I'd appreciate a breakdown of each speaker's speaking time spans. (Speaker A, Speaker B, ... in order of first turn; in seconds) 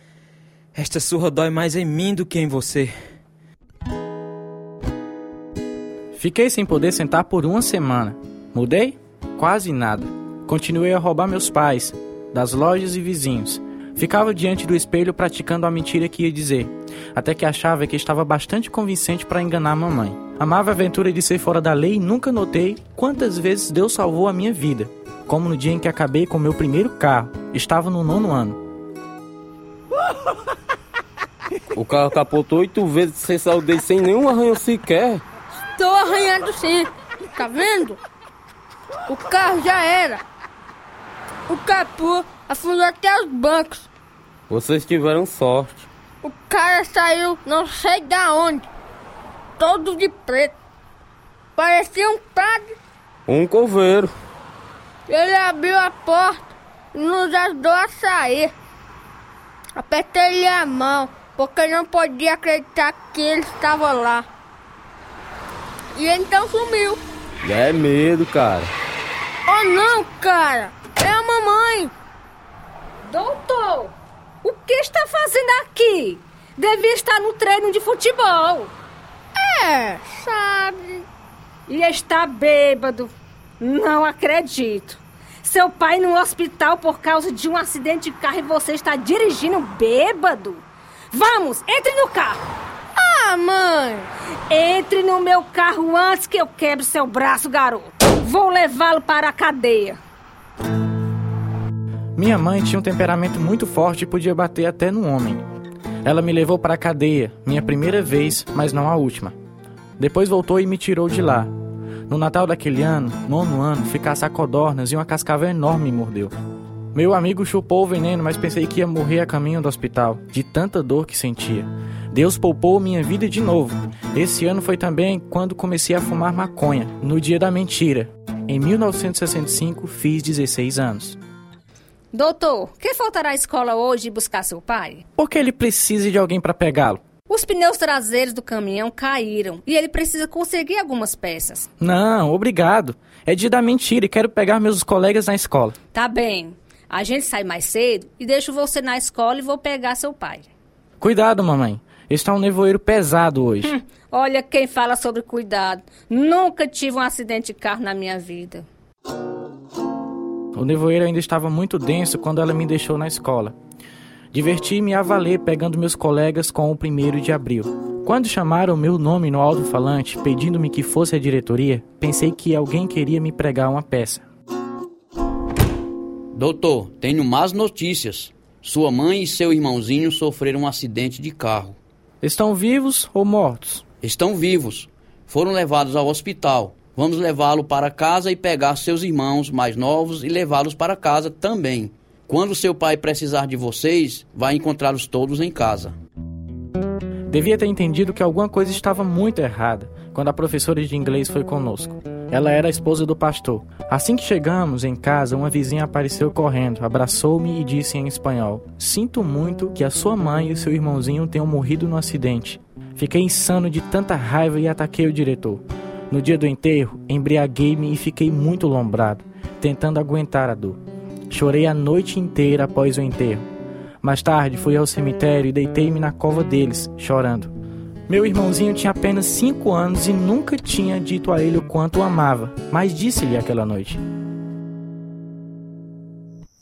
Speaker A: 0.7-2.9
Speaker B: 6.1-28.6, 102.2-105.5, 106.0-109.3, 110.0-111.5, 112.1-116.3, 116.9-131.2, 135.2-137.0, 141.8-145.8, 151.0-153.7, 160.5-163.5, 164.3-174.2, 182.2-183.8, 197.3-223.4, 224.0-227.5, 228.1-234.0
Speaker C: 31.7-35.2, 44.5-45.9, 53.3-54.1, 67.4-68.7
Speaker D: 35.8-38.0, 39.1-40.2, 41.5-43.9, 46.2-48.6, 49.6-50.5, 51.5-52.7, 55.1-58.5, 59.8-64.2, 65.9-67.0, 69.5-71.9, 79.4-81.0, 93.0-94.1
Speaker E: 73.1-78.7, 81.7-92.4, 94.5-100.0, 132.1-135.0, 137.3-141.7, 145.9-150.5, 153.7-158.7
Speaker F: 176.3-181.8, 184.0-195.9